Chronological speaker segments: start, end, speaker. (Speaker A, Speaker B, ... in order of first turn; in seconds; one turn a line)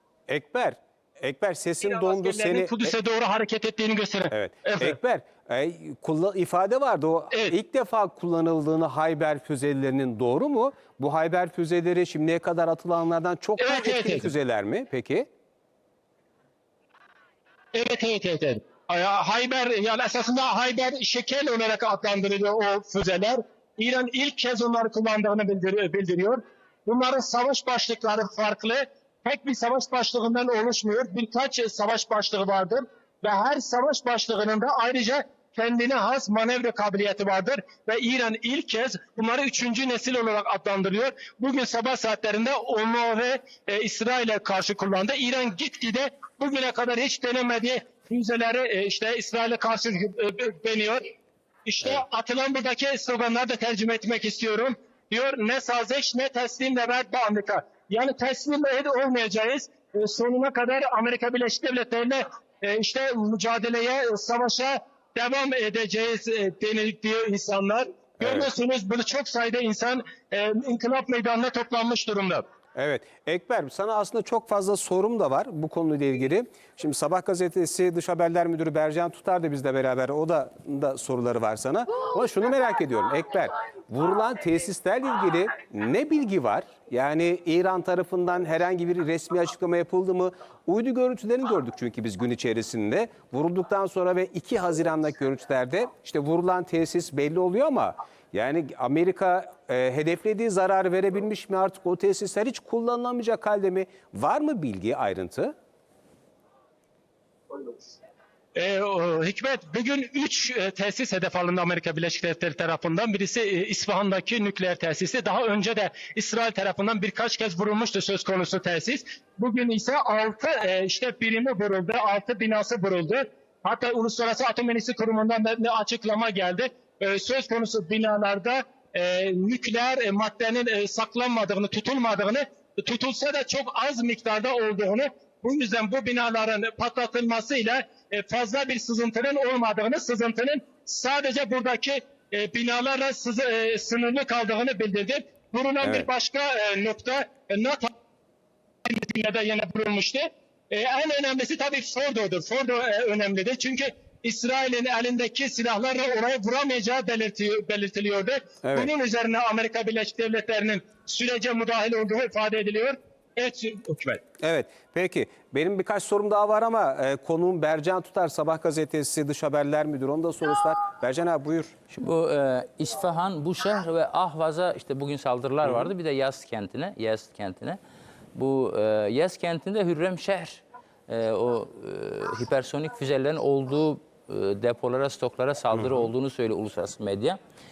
Speaker A: 0.3-2.9
Speaker B: 1.8-5.0
Speaker A: 4.3-15.3
Speaker B: 13.6-14.3
Speaker B: 17.7-51.0
Speaker B: 51.6-72.4
Speaker A: 68.2-68.5
Speaker A: 72.8-105.5
Speaker B: 108.5-147.9
Speaker A: 145.8-146.1
Speaker B: 148.8-164.2
Speaker A: 158.6-158.9
Speaker A: 164.4-171.7
Speaker C: 171.9-177.8
Speaker A: 175.6-175.9
Speaker C: 178.3-187.4
Speaker A: 185.7-186.1